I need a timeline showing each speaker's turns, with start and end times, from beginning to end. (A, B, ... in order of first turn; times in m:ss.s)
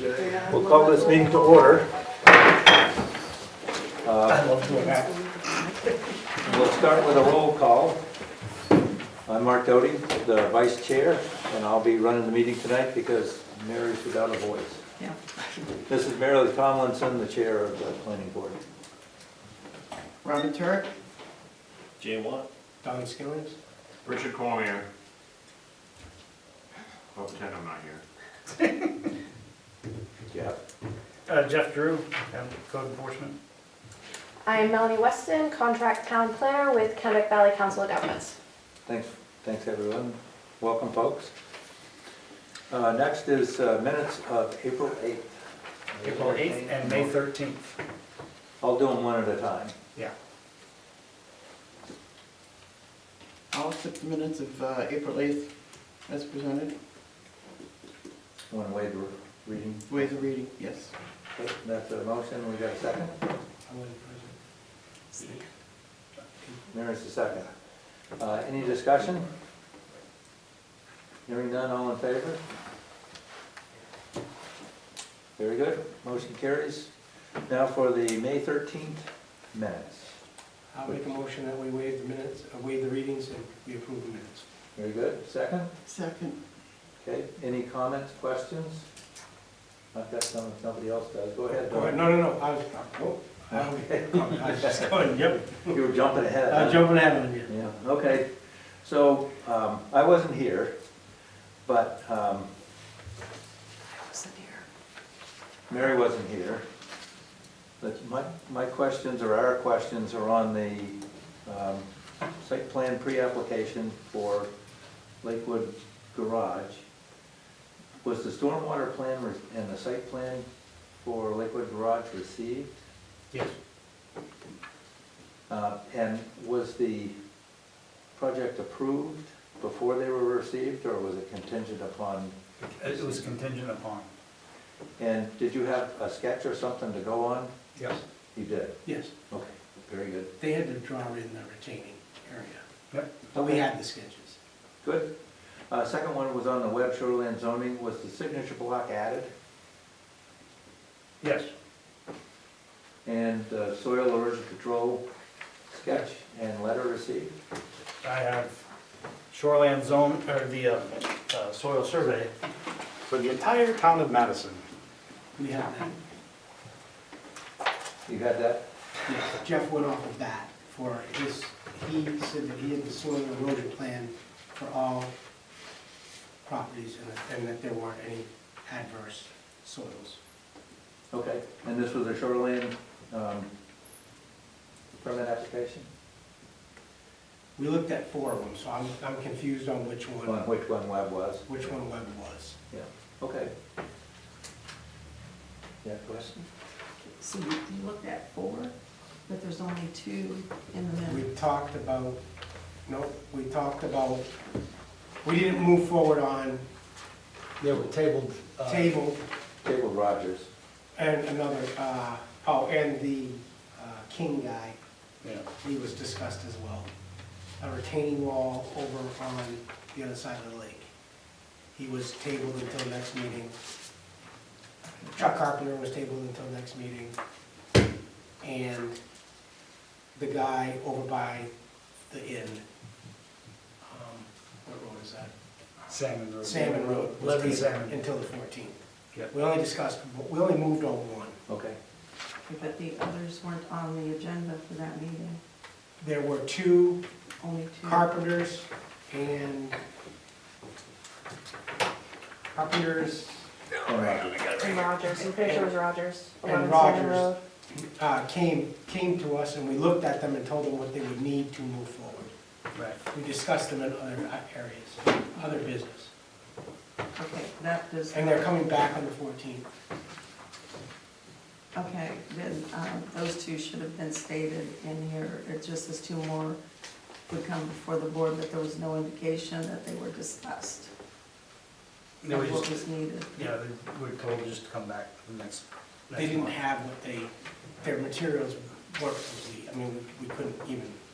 0:00.3-0:01.9 A
0:04.0-0:04.5 A
0:04.3-0:05.1 B
0:06.4-0:08.0 A
0:09.3-0:14.8 A
0:15.9-0:18.6 A
0:20.2-0:20.9 C
0:22.0-0:22.5 D
0:22.8-0:23.6 E
0:24.0-0:24.9 D
0:27.1-0:28.0 D
0:28.6-0:28.9 B
0:30.3-0:30.6 A
0:31.3-0:33.4 B
0:34.4-0:38.4 F
0:38.9-0:41.3 A
0:42.7-0:45.3 A
0:45.9-0:47.2 A
0:46.0-0:47.8 B
0:48.6-0:49.7 A
0:53.5-0:55.5 C
0:56.0-0:56.7 C
0:58.5-1:00.2 A
0:59.9-1:00.9 C
1:01.4-1:03.2 A
1:03.7-1:04.4 E
1:05.1-1:05.4 E
1:06.7-1:07.5 A
1:08.2-1:09.3 A
1:11.3-1:12.4 A
1:15.4-1:16.9 A
1:17.5-1:20.1 A
1:20.7-1:24.4 E
1:24.8-1:25.7 A
1:25.9-1:26.4 C
1:27.0-1:28.9 A
1:29.9-1:32.0 A
1:31.7-1:35.8 E
1:33.5-1:34.9 A
1:35.7-1:40.7 A
1:36.5-1:37.5 E
1:41.7-1:42.5 A
1:43.9-1:44.6 G
1:45.7-1:46.6 A
1:47.8-1:51.9 A
1:52.4-1:54.5 A
1:55.2-1:56.8 A
1:58.0-2:00.5 A
2:01.0-2:02.7 A
2:05.5-2:07.2 A
2:08.2-2:13.3 A
2:12.6-2:14.1 B
2:15.0-2:17.5 A
2:18.4-2:20.3 A
2:18.8-2:19.1 E
2:20.4-2:22.6 E
2:22.9-2:23.2 B
2:23.3-2:23.6 A
2:23.4-2:24.4 E
2:24.8-2:25.1 A
2:25.7-2:29.3 A
2:31.2-2:31.5 B
2:33.0-2:35.0 A
2:35.7-2:37.3 A
2:38.0-2:38.5 B
2:39.3-2:42.3 B
2:43.1-2:44.6 B
2:45.4-2:46.0 E
2:48.1-2:48.7 A
2:49.1-2:55.1 E
2:56.4-3:00.2 E
3:01.1-3:03.5 A
3:05.0-3:05.9 A
3:07.6-3:10.5 E
3:10.2-3:11.4 A
3:11.4-3:12.6 E
3:12.7-3:13.5 A
3:15.8-3:16.3 A
3:17.2-3:18.7 G
3:19.3-3:21.3 G
3:21.1-3:22.2 E
3:22.9-3:24.3 E
3:25.2-3:26.6 E
3:27.6-3:29.0 B
3:28.6-3:29.2 E
3:29.6-3:30.5 A
3:31.0-3:34.8 E
3:35.6-3:36.9 E
3:37.6-3:40.9 E
3:41.7-3:43.6 E
3:45.1-3:47.2 E
3:48.4-3:49.0 E
3:50.1-3:51.5 E
3:52.1-3:52.6 E
3:53.8-3:55.3 E
3:55.9-3:58.0 B
3:56.4-3:58.8 E
3:59.3-4:01.4 E
4:01.5-4:01.8 A
4:02.4-4:05.4 G
4:06.0-4:07.0 E
4:07.4-4:08.1 G
4:07.8-4:09.8 E
4:12.5-4:13.5 E
4:13.9-4:14.4 A
4:14.0-4:14.7 B
4:14.5-4:17.4 F
4:16.4-4:22.3 E
4:23.1-4:26.1 E
4:27.2-4:28.5 G
4:28.1-4:29.7 E
4:31.7-4:36.6 G
4:37.3-4:40.9 G
4:42.2-4:42.8 B
4:42.3-4:43.5 G
4:43.4-4:46.6 B
4:46.2-4:47.3 E
4:47.8-4:51.0 E